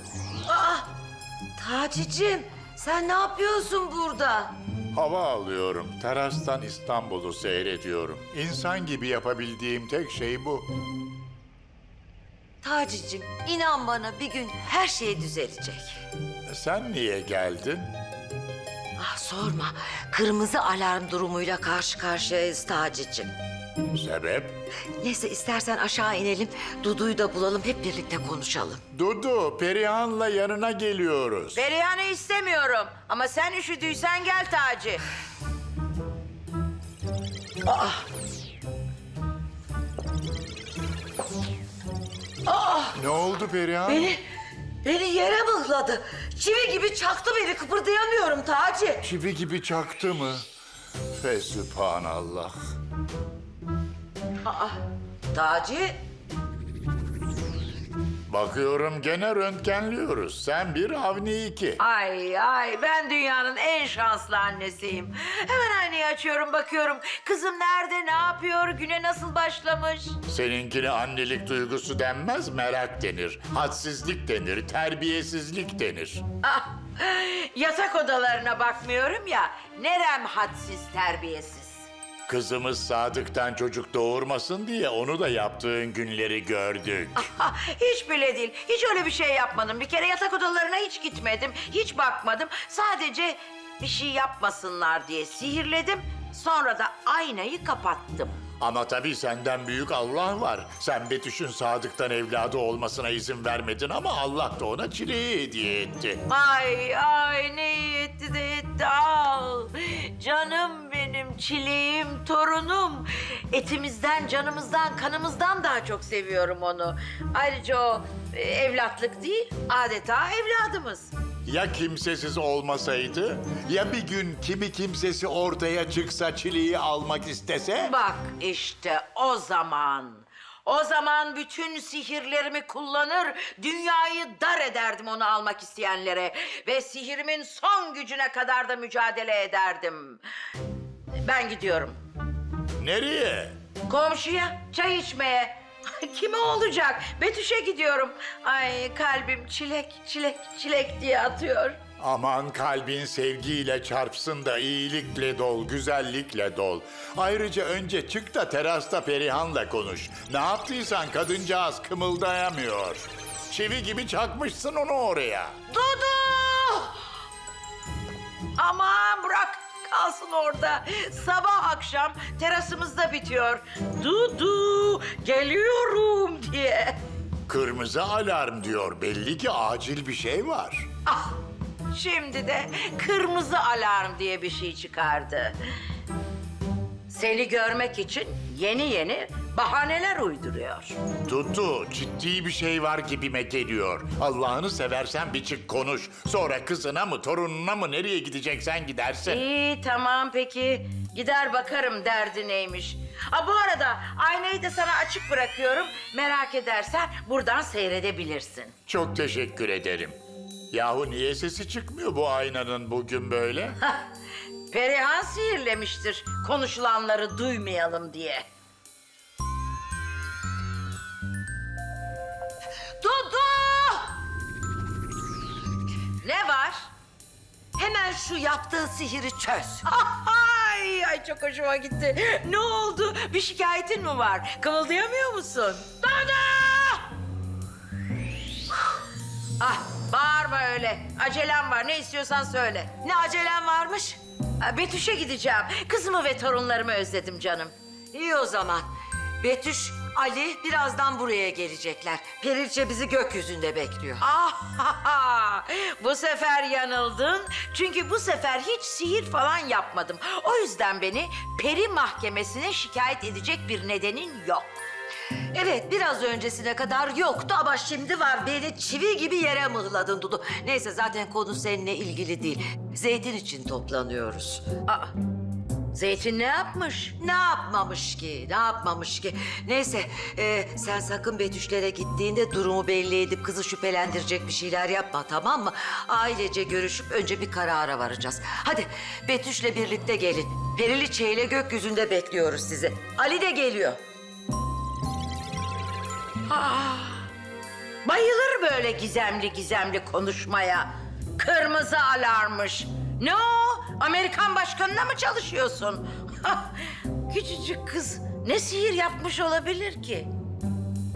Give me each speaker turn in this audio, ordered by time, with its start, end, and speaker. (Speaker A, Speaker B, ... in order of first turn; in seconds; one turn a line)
Speaker A: 0.5-0.9
Speaker A: 1.6-4.5
Speaker B: 4.9-10.7
Speaker A: 12.6-16.0
Speaker B: 16.4-17.9
Speaker A: 19.0-23.3
Speaker B: 23.9-24.6
Speaker A: 24.9-28.8
Speaker B: 28.9-31.6
Speaker C: 31.5-35.0
Speaker A: 37.6-38.0
Speaker A: 42.5-43.0
Speaker B: 42.9-44.1
Speaker A: 43.9-44.2
Speaker A: 44.8-49.1
Speaker B: 49.0-50.4
Speaker B: 51.1-52.5
Speaker A: 54.5-54.7
Speaker A: 55.3-56.0
Speaker B: 58.3-61.8
Speaker C: 61.8-70.2
Speaker B: 70.2-76.2
Speaker C: 76.4-81.9
Speaker B: 82.3-87.2
Speaker C: 87.1-98.4
Speaker B: 98.6-106.2
Speaker C: 106.2-121.1
Speaker B: 121.5-127.9
Speaker C: 127.8-140.2
Speaker C: 141.2-142.0
Speaker B: 142.8-143.6
Speaker C: 143.9-151.8
Speaker B: 152.0-165.5
Speaker C: 165.7-166.9
Speaker C: 168.6-177.0
Speaker B: 177.5-180.9
Speaker C: 181.1-181.4
Speaker C: 181.9-185.6
Speaker C: 187.1-191.0
Speaker B: 191.2-199.4
Speaker C: 199.2-208.7
Speaker B: 208.9-210.2
Speaker B: 210.7-213.8
Speaker C: 214.7-218.4
Speaker A: 223.0-224.1
Speaker C: 226.2-226.9
Speaker A: 227.8-229.8
Speaker C: 229.8-237.0
Speaker C: 239.6-242.9
Speaker A: 243.0-244.2
Speaker C: 244.6-247.7
Speaker A: 248.1-248.8
Speaker A: 249.4-254.2
Speaker C: 254.2-264.8
Speaker A: 265.5-274.7
Speaker C: 274.8-275.1
Speaker C: 275.9-277.1
Speaker A: 277.2-294.0
Speaker C: 296.4-297.2
Speaker C: 298.0-310.3